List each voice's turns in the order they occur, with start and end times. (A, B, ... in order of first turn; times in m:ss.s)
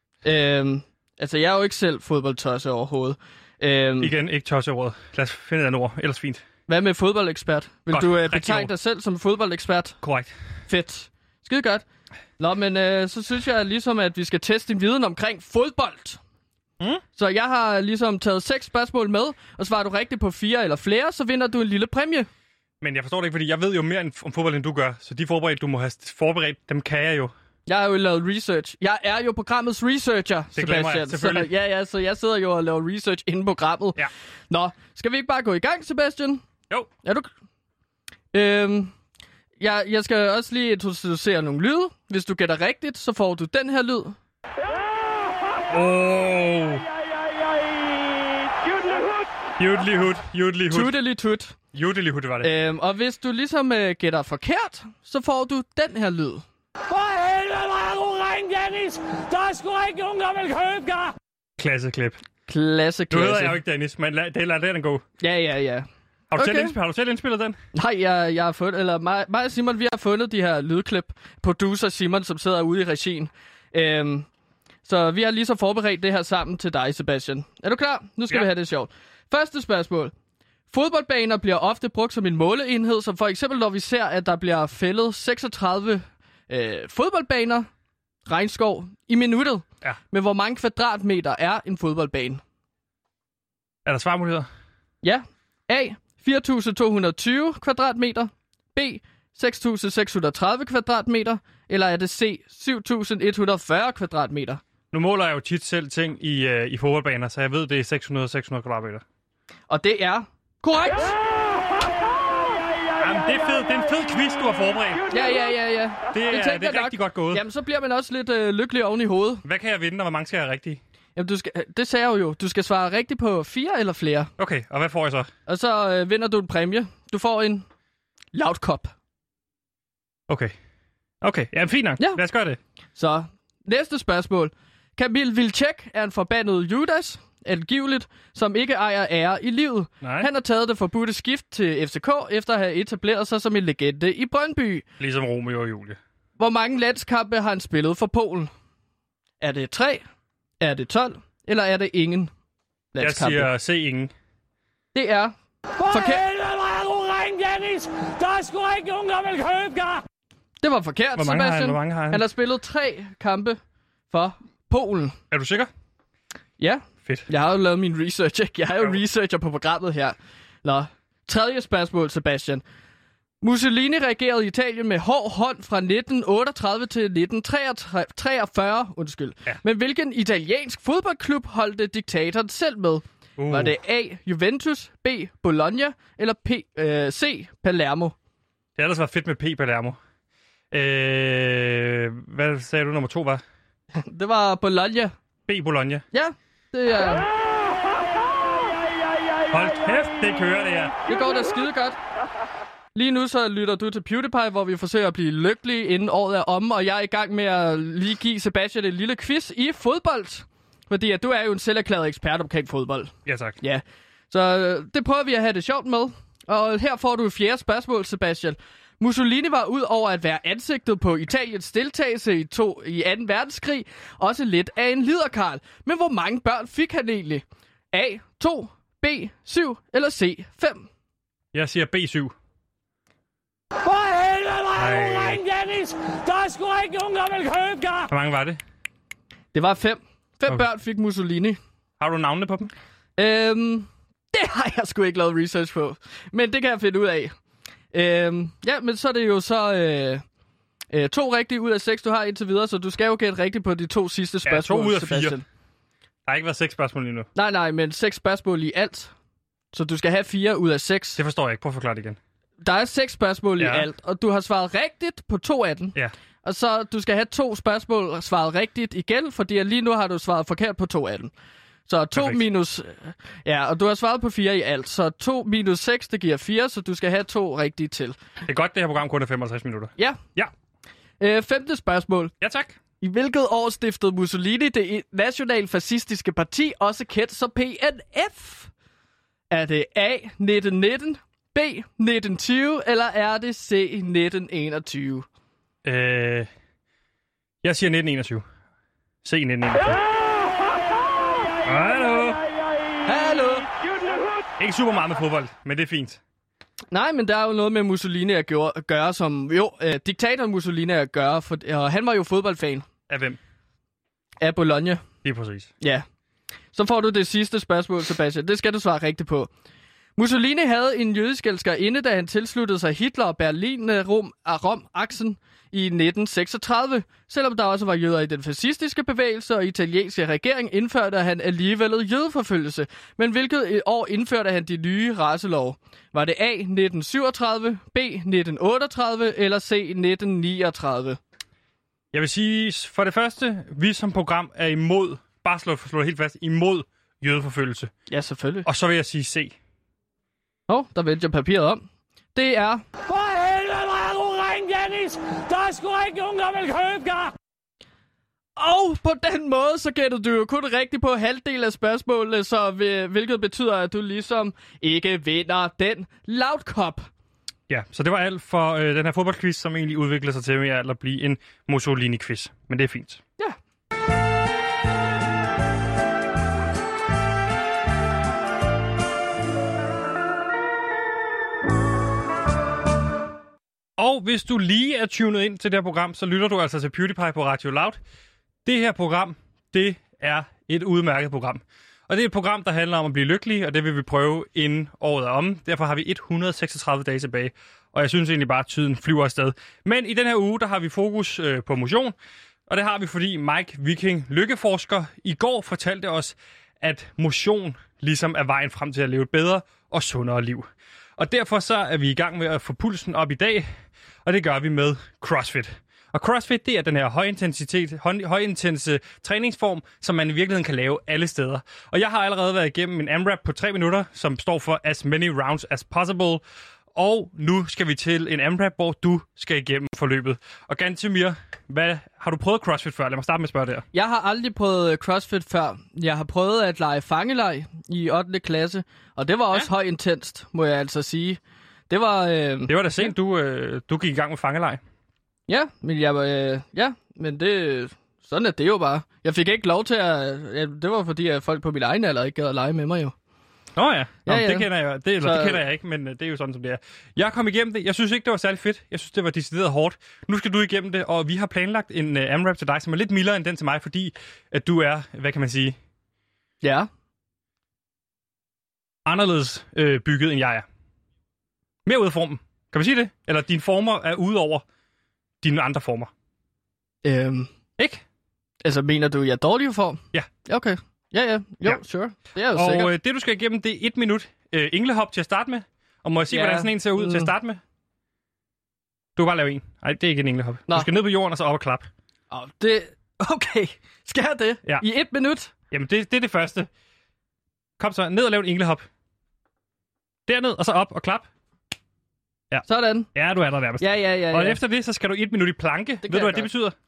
0:00.2-0:04.1 A
0:04.0-0:06.4 B
0:06.7-0:10.0 A
0:07.9-0:08.7 B
0:10.0-0:10.3 B
0:10.7-0:11.8 A
0:12.4-0:16.2 A
0:17.2-0:22.3 A
0:22.8-0:27.3 B
0:27.7-0:36.4 A
0:30.6-0:31.5 B
0:37.0-0:37.3 A
0:38.3-0:38.9 A
0:39.6-0:44.2 A
0:45.7-0:46.8 B
0:49.6-0:51.0 B
0:50.7-0:51.6 A
0:51.7-0:52.5 B
0:52.4-0:56.4 A
0:56.9-1:01.2 C
1:01.6-1:02.2 B
1:02.5-1:03.6 A
1:03.1-1:05.0 B
1:05.2-1:06.8 A
1:06.3-1:07.6 B
1:07.8-1:14.3 A
1:14.9-1:20.1 A
1:20.7-1:27.7 A
1:28.3-1:32.4 A
1:33.8-1:34.5 B
1:35.0-1:44.6 A
1:44.9-1:49.0 B
1:49.7-1:51.2 A
1:53.0-1:55.1 B
1:55.1-1:59.4 A
1:56.1-1:57.4 B
1:59.4-2:00.8 B
2:01.2-2:04.3 A
2:04.4-2:05.3 B
2:05.5-2:07.6 A
2:08.3-2:08.9 A
2:10.3-2:10.6 B
2:11.2-2:12.6 B
2:13.0-2:24.8 A
2:20.0-2:20.3 B
2:25.0-2:26.0 B
2:26.4-2:28.5 A
2:29.4-2:30.0 A
2:30.6-2:32.3 A
2:32.9-2:33.5 A
2:33.0-2:34.1 B
2:34.9-2:35.3 A
2:35.8-2:40.0 C
2:35.9-2:36.2 A
2:40.6-2:43.6 A
2:41.2-2:42.2 B
2:44.1-2:45.2 A
2:45.3-2:45.7 B
2:46.6-2:52.6 A
2:53.4-3:08.2 A
3:03.4-3:03.7 B
3:08.8-3:10.0 B
3:10.7-3:13.4 B
3:14.0-3:15.1 A
3:15.5-3:16.0 B
3:16.1-3:17.3 A
3:19.5-3:21.0 B
3:21.1-3:22.0 A
3:23.0-3:50.9 A
3:33.3-3:33.6 B
3:51.5-3:52.3 B
3:53.8-3:58.1 C
3:54.8-3:55.4 B
3:58.1-3:58.6 B
3:59.5-4:01.6 A
4:02.0-4:02.7 B
4:03.2-4:07.3 A
4:07.9-4:10.2 A
4:10.9-4:15.4 A
4:14.5-4:15.4 B
4:16.3-4:17.3 B
4:17.4-4:19.1 A
4:19.7-4:21.2 A
4:21.2-4:22.2 B
4:22.6-4:31.3 A
4:23.6-4:23.9 B
4:31.9-4:38.2 A
4:32.2-4:32.4 B
4:38.5-4:40.5 B
4:41.2-4:42.3 A
4:42.4-4:42.8 B
4:43.0-4:48.7 A
4:49.5-4:55.3 A
4:55.8-4:56.5 B
4:57.6-4:58.5 B
4:59.2-5:00.0 B
5:01.6-5:02.4 B
5:03.1-5:03.7 A
5:04.6-5:06.2 B
5:06.9-5:12.9 A
5:13.1-5:13.4 B
5:14.4-5:15.0 A
5:15.2-5:15.7 B
5:16.7-5:19.5 A
5:20.2-5:41.2 A
5:42.1-5:47.9 B
5:48.1-5:48.7 A
5:48.6-5:49.6 B
5:50.7-5:51.8 A
5:52.4-5:52.8 A
5:53.1-5:57.3 C
5:58.6-6:07.1 A
6:07.7-6:13.2 B
6:24.0-6:28.0 B
6:28.6-6:42.2 B
6:42.7-6:53.7 B
6:54.2-7:06.4 B
7:07.0-7:13.9 B
7:13.9-7:23.1 A
7:22.7-7:24.8 B
7:25.5-7:33.1 A
7:33.8-7:45.8 B
7:34.3-7:34.7 A
7:35.2-7:35.6 A
7:46.6-7:46.9 A
7:49.0-7:50.6 B
7:51.9-7:54.6 B
7:55.4-7:56.1 B
7:57.0-7:57.5 A
7:57.8-7:58.0 B
7:58.6-8:02.9 A
8:02.5-8:07.6 B
8:06.3-8:07.3 A
8:09.2-8:11.9 B
8:12.3-8:15.5 A
8:15.7-8:16.7 B
8:17.8-8:18.9 B
8:20.3-8:21.3 B
8:22.5-8:26.7 B
8:22.7-8:23.1 A
8:23.8-8:24.6 A
8:26.0-8:26.5 A